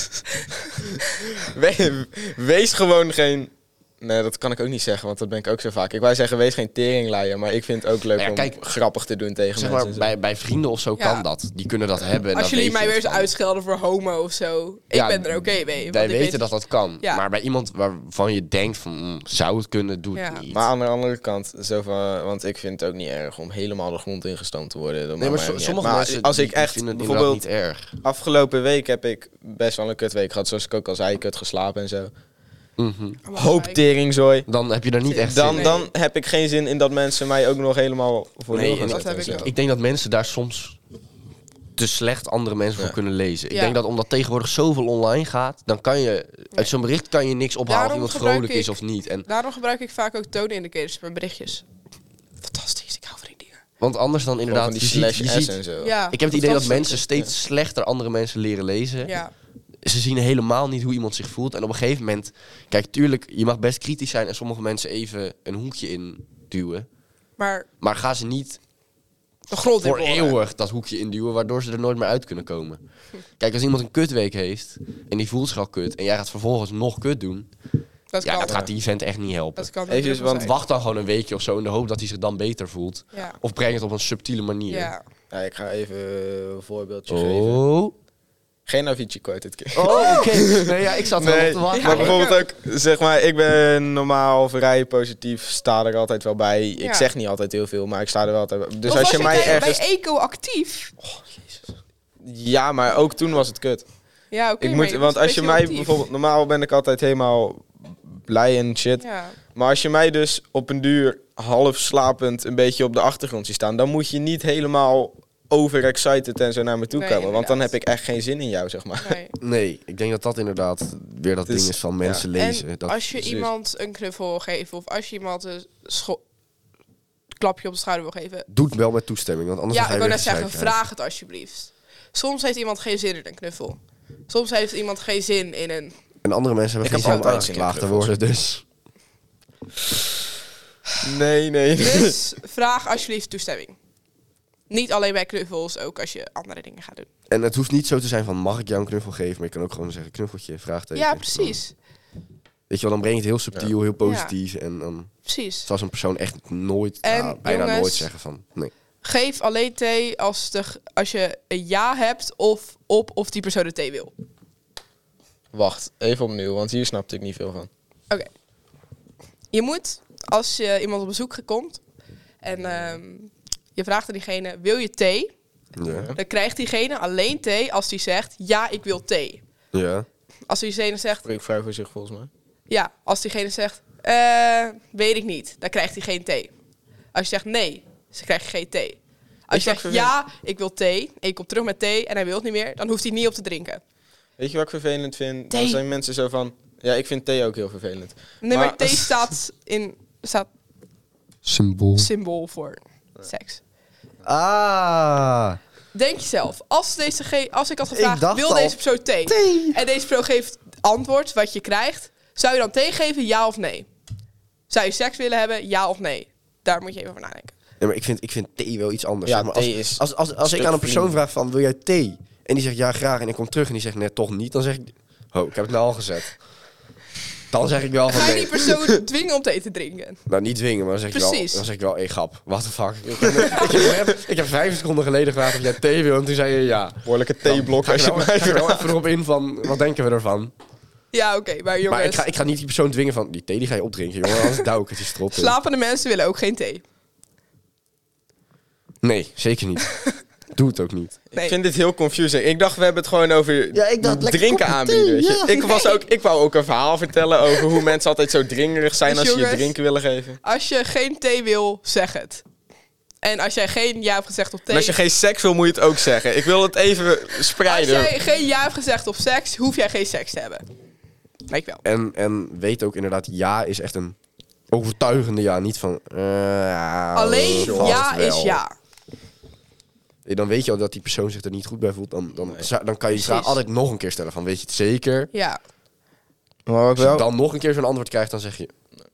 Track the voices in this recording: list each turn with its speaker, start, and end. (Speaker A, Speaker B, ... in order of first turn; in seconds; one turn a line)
Speaker A: 0.4-1.2
Speaker B: 1.3-10.1
Speaker C: 8.2-8.6
Speaker C: 9.6-13.3
Speaker A: 11.0-11.2
Speaker A: 12.3-16.4
Speaker C: 14.9-20.7
Speaker A: 20.1-20.4
Speaker B: 20.5-27.4
Speaker C: 25.2-28.0
Speaker B: 28.0-32.1
Speaker C: 32.8-33.2
Speaker A: 33.2-33.8
Speaker B: 33.3-34.5
Speaker C: 34.5-35.8
Speaker A: 35.1-35.9
Speaker B: 35.2-39.5
Speaker C: 38.5-40.8
Speaker A: 38.9-39.5
Speaker C: 41.8-49.2
Speaker A: 43.5-43.8
Speaker A: 47.7-48.7
Speaker A: 49.3-51.6
Speaker A: 52.4-53.6
Speaker C: 53.8-55.6
Speaker B: 54.5-55.9
Speaker A: 55.8-57.0
Speaker C: 56.1-59.1
Speaker A: 59.0-59.3
Speaker C: 59.8-66.8
Speaker A: 67.4-67.7
Speaker C: 67.8-68.6
Speaker A: 69.5-70.4
Speaker C: 69.8-72.8
Speaker C: 73.4-77.5
Speaker A: 78.1-78.6
Speaker C: 78.2-84.9
Speaker B: 78.4-78.7
Speaker A: 79.6-80.5
Speaker B: 79.9-80.5
Speaker A: 84.7-85.0
Speaker B: 85.3-87.6
Speaker C: 87.1-87.9
Speaker B: 88.7-99.8
Speaker C: 89.7-92.2
Speaker A: 89.8-90.3
Speaker A: 91.7-92.4
Speaker A: 96.8-97.1
Speaker A: 98.8-100.9
Speaker B: 101.0-101.6
Speaker B: 102.2-103.8
Speaker A: 104.3-106.0
Speaker B: 104.6-119.2
Speaker A: 109.0-109.4
Speaker A: 116.9-117.7
Speaker A: 119.0-119.3
Speaker C: 119.4-123.0
Speaker B: 121.5-122.2
Speaker A: 122.3-126.2
Speaker B: 123.1-123.5
Speaker A: 127.3-128.5
Speaker C: 128.5-130.8
Speaker A: 129.7-135.9
Speaker C: 136.2-138.6
Speaker B: 136.8-138.1
Speaker B: 141.0-142.2
Speaker A: 141.8-143.8
Speaker A: 144.7-147.1
Speaker C: 147.3-151.6
Speaker A: 150.9-151.7
Speaker C: 152.7-158.7
Speaker A: 154.0-154.3
Speaker A: 155.2-155.7
Speaker A: 157.0-158.1
Speaker A: 159.0-164.1
Speaker B: 165.5-167.7
Speaker A: 169.5-171.8
Speaker A: 172.4-175.3
Speaker B: 172.5-173.0
Speaker C: 175.8-176.1
Speaker B: 175.8-176.2
Speaker A: 176.1-179.4
Speaker C: 179.7-180.1
Speaker A: 180.5-181.3
Speaker B: 181.2-182.3
Speaker A: 182.7-186.5
Speaker A: 187.1-193.8
Speaker B: 189.5-190.1
Speaker B: 194.4-199.1
Speaker A: 195.5-195.8
Speaker A: 198.4-200.5
Speaker C: 201.4-202.1
Speaker A: 202.0-203.6
Speaker C: 204.2-205.6
Speaker A: 205.9-213.9
Speaker C: 207.9-209.8
Speaker A: 214.7-217.5
Speaker C: 217.8-226.4
Speaker B: 219.2-221.2
Speaker C: 227.5-228.7
Speaker A: 228.1-230.2
Speaker C: 230.3-240.5
Speaker A: 231.1-231.6
Speaker B: 233.2-233.5
Speaker B: 237.0-238.9
Speaker A: 241.1-242.2
Speaker C: 241.9-245.6
Speaker A: 245.3-246.8
Speaker C: 249.0-250.0
Speaker C: 250.5-251.2
Speaker B: 251.3-260.4
Speaker C: 253.7-255.5
Speaker A: 255.5-256.0
Speaker A: 259.1-259.7
Speaker A: 260.4-262.4
Speaker A: 263.2-264.9
Speaker B: 264.7-268.1
Speaker A: 267.6-270.6
Speaker A: 271.5-271.8
Speaker C: 271.8-274.1
Speaker C: 274.7-278.6
Speaker A: 277.1-278.7
Speaker B: 277.6-278.0
Speaker C: 280.2-285.3
Speaker B: 282.4-282.7
Speaker A: 283.1-283.6
Speaker A: 285.3-285.6
Speaker B: 286.6-287.3
Speaker C: 287.0-288.7